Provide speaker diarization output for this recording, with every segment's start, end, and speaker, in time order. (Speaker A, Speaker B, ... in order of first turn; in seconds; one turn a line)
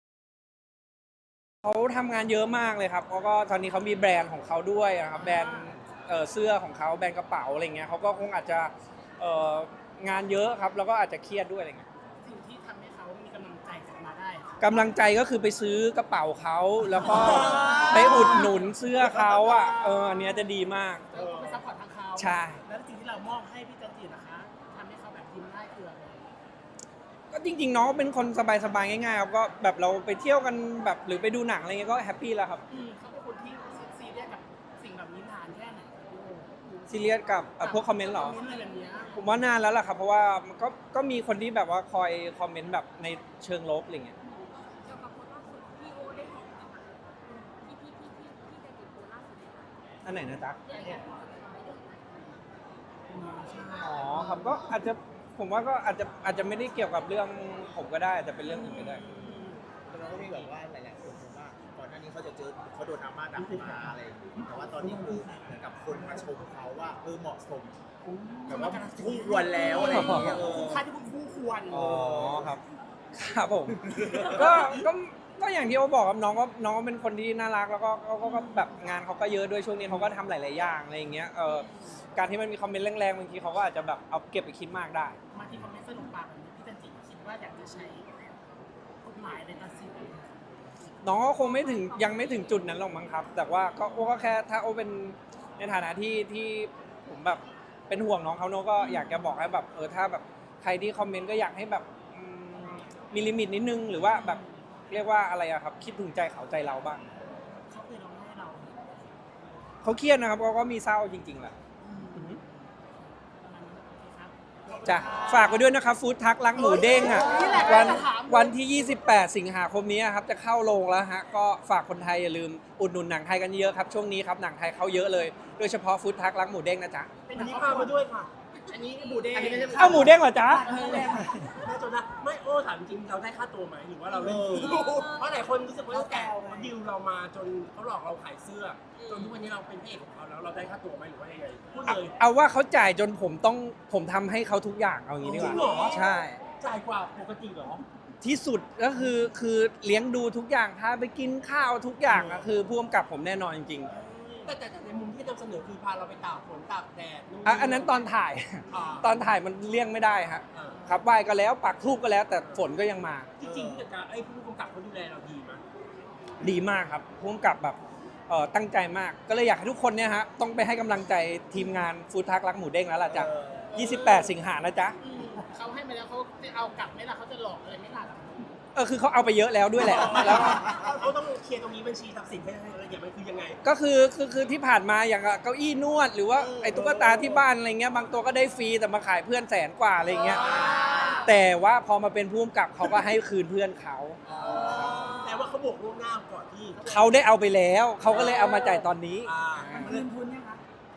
Speaker A: 1.6-11.8
Speaker B: 5.1-5.7
Speaker B: 12.2-14.6
Speaker A: 14.6-21.1
Speaker C: 17.0-18.5
Speaker B: 17.0-18.7
Speaker C: 19.0-19.5
Speaker B: 19.5-20.4
Speaker B: 21.1-26.3
Speaker C: 21.1-21.6
Speaker A: 22.2-22.6
Speaker A: 27.3-32.6
Speaker B: 32.7-39.2
Speaker A: 36.9-38.4
Speaker A: 39.2-44.1
Speaker D: 44.4-49.8
Speaker A: 50.0-50.6
Speaker D: 50.6-52.8
Speaker B: 50.7-51.0
Speaker B: 53.1-54.6
Speaker A: 53.8-59.0
Speaker B: 58.5-59.6
Speaker E: 59.9-67.8
Speaker F: 64.3-65.2
Speaker F: 65.9-66.2
Speaker F: 68.0-68.7
Speaker E: 68.5-70.8
Speaker B: 68.5-71.8
Speaker A: 69.8-70.4
Speaker F: 69.9-70.3
Speaker E: 71.7-72.6
Speaker A: 71.7-72.6
Speaker A: 73.1-85.2
Speaker E: 73.9-74.7
Speaker B: 78.2-78.8
Speaker B: 81.5-82.0
Speaker B: 85.3-88.1
Speaker B: 89.0-90.7
Speaker A: 91.0-107.0
Speaker D: 91.4-92.8
Speaker B: 104.1-104.5
Speaker B: 107.7-108.8
Speaker A: 109.8-111.5
Speaker B: 111.8-112.7
Speaker B: 113.4-115.7
Speaker C: 114.6-115.5
Speaker A: 114.8-127.1
Speaker B: 116.5-118.6
Speaker C: 117.2-117.6
Speaker B: 127.2-128.0
Speaker C: 127.3-128.3
Speaker B: 128.6-130.2
Speaker F: 129.3-131.7
Speaker A: 129.7-131.3
Speaker B: 130.7-131.1
Speaker C: 131.6-142.2
Speaker E: 134.4-135.0
Speaker D: 134.5-135.3
Speaker F: 135.9-136.7
Speaker D: 139.0-139.3
Speaker A: 141.8-146.4
Speaker C: 145.2-147.8
Speaker B: 145.4-145.9
Speaker A: 148.2-153.9
Speaker C: 152.1-152.5
Speaker B: 153.9-154.5
Speaker C: 154.4-158.1
Speaker A: 157.4-163.3
Speaker C: 158.7-159.1
Speaker C: 160.5-160.8
Speaker C: 163.4-165.6
Speaker E: 163.4-163.9
Speaker A: 166.4-167.8
Speaker A: 168.3-175.0
Speaker E: 173.1-173.7
Speaker B: 173.7-174.3
Speaker B: 175.0-178.5
Speaker A: 178.7-180.7
Speaker C: 179.9-183.6
Speaker B: 180.1-180.9
Speaker A: 183.6-195.1
Speaker C: 186.3-187.4
Speaker B: 190.1-191.3
Speaker C: 190.4-190.9
Speaker C: 194.3-197.1
Speaker B: 194.4-195.3
Speaker B: 196.8-197.2
Speaker A: 196.8-199.9
Speaker C: 198.1-200.1
Speaker F: 199.7-200.6